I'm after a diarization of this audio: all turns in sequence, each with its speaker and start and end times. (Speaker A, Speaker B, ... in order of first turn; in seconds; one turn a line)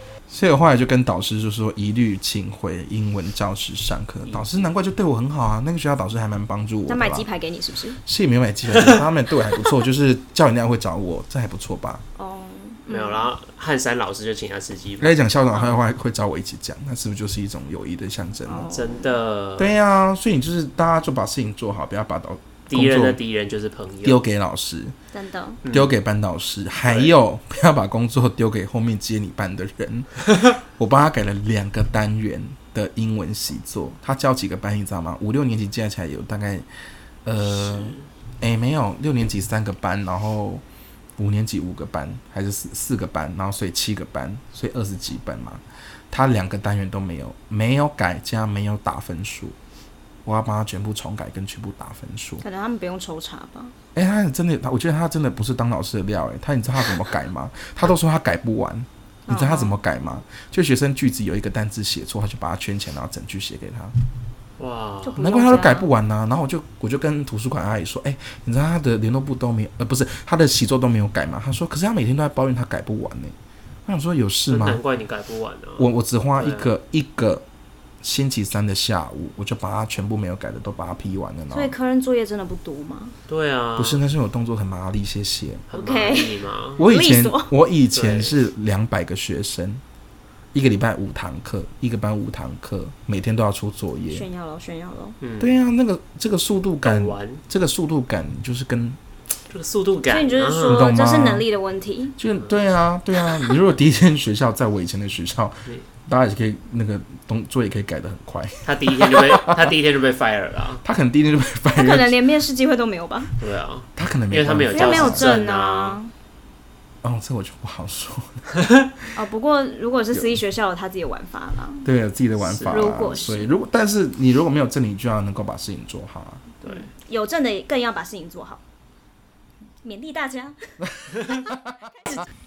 Speaker A: 0.3-7.3
Speaker B: 4.2-4.5
Speaker C: 6.9-8.0
Speaker A: 8.0-12.0
Speaker B: 8.7-9.0
Speaker C: 12.2-13.3
Speaker B: 12.9-15.2
Speaker A: 15.0-18.7
Speaker C: 18.5-19.1
Speaker B: 18.7-19.8
Speaker A: 19.6-23.2
Speaker B: 22.7-24.2
Speaker A: 24.0-25.0
Speaker C: 25.1-25.6
Speaker B: 25.7-25.9
Speaker A: 25.7-36.7
Speaker B: 26.9-27.1
Speaker A: 37.2-40.6
Speaker B: 37.5-38.0
Speaker A: 41.2-49.6
Speaker A: 50.2-52.4
Speaker C: 52.4-53.7
Speaker A: 54.0-63.9
Speaker C: 59.3-59.8
Speaker B: 64.6-65.2
Speaker C: 65.0-65.9
Speaker A: 65.2-74.8
Speaker B: 74.5-76.7
Speaker A: 75.8-77.5
Speaker A: 78.0-81.7
Speaker C: 81.5-83.2
Speaker B: 83.3-84.0
Speaker A: 83.8-85.7
Speaker B: 85.7-86.8
Speaker C: 85.7-87.5
Speaker A: 86.8-89.8
Speaker B: 87.9-88.4
Speaker A: 90.5-94.3
Speaker C: 94.1-95.2
Speaker B: 95.2-95.5
Speaker A: 95.4-99.0
Speaker B: 96.8-97.4
Speaker B: 99.5-100.9
Speaker C: 100.1-102.2
Speaker A: 100.7-101.5
Speaker A: 102.2-109.7
Speaker B: 108.7-110.8
Speaker A: 110.8-112.2
Speaker C: 111.8-113.3
Speaker B: 113.4-116.0
Speaker A: 114.0-115.3
Speaker C: 114.7-116.1
Speaker A: 117.0-118.5
Speaker C: 119.2-121.9
Speaker A: 120.1-120.4
Speaker A: 121.8-126.4
Speaker B: 122.4-122.8
Speaker C: 122.7-123.5
Speaker B: 126.6-126.9
Speaker C: 126.7-128.6
Speaker C: 129.8-130.6